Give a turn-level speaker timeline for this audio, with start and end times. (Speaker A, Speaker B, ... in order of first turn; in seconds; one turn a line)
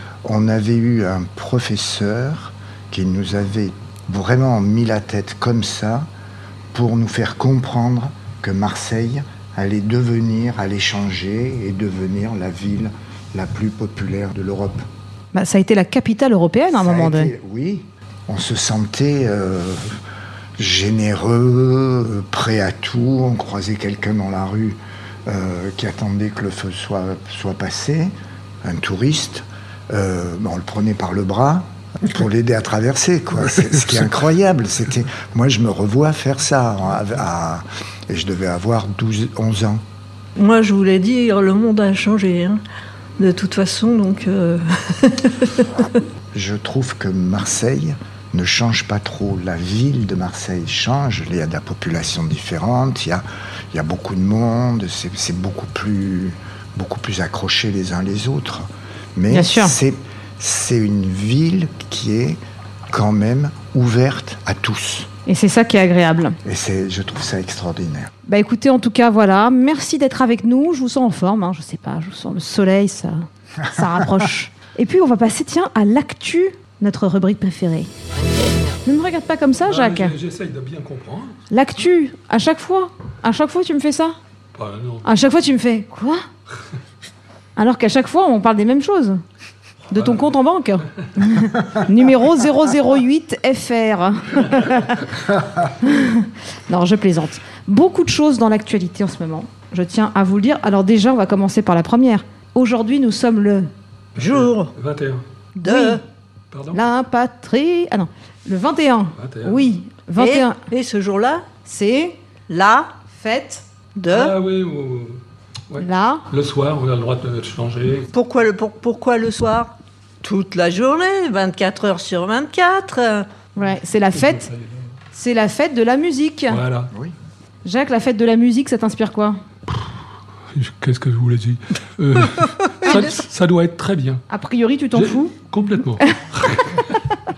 Speaker A: 0.2-6.1
Speaker A: 6.7-14.9
Speaker B: 15.3-17.3
Speaker A: 16.7-20.0
Speaker A: 20.6-28.1
Speaker A: 28.6-39.8
Speaker C: 40.4-42.6
Speaker C: 43.2-46.0
Speaker A: 46.3-62.4
Speaker B: 59.3-59.7
Speaker A: 62.9-65.1
Speaker B: 65.3-66.4
Speaker A: 66.4-68.1
Speaker B: 68.3-77.9
Speaker B: 78.8-80.2
Speaker D: 79.6-81.4
Speaker B: 81.5-84.2
Speaker D: 84.5-85.0
Speaker B: 85.0-86.2
Speaker B: 87.6-89.2
Speaker B: 89.9-95.1
Speaker D: 90.0-90.3
Speaker D: 91.0-91.8
Speaker B: 95.8-103.7
Speaker D: 104.2-105.2
Speaker C: 104.2-104.7
Speaker C: 105.6-106.0
Speaker B: 105.6-106.0
Speaker D: 106.5-106.8
Speaker B: 106.7-110.6
Speaker D: 109.2-109.7
Speaker C: 110.2-111.4
Speaker B: 111.6-112.2
Speaker C: 112.5-112.9
Speaker B: 113.1-113.6
Speaker C: 114.0-114.3
Speaker D: 114.1-118.1
Speaker B: 115.8-116.2
Speaker C: 118.1-123.3
Speaker B: 123.5-124.5
Speaker D: 124.1-124.7
Speaker B: 125.1-126.6
Speaker D: 126.5-126.9
Speaker B: 127.6-129.4
Speaker D: 130.5-134.2
Speaker B: 132.8-133.1
Speaker B: 134.3-135.3
Speaker D: 134.9-137.1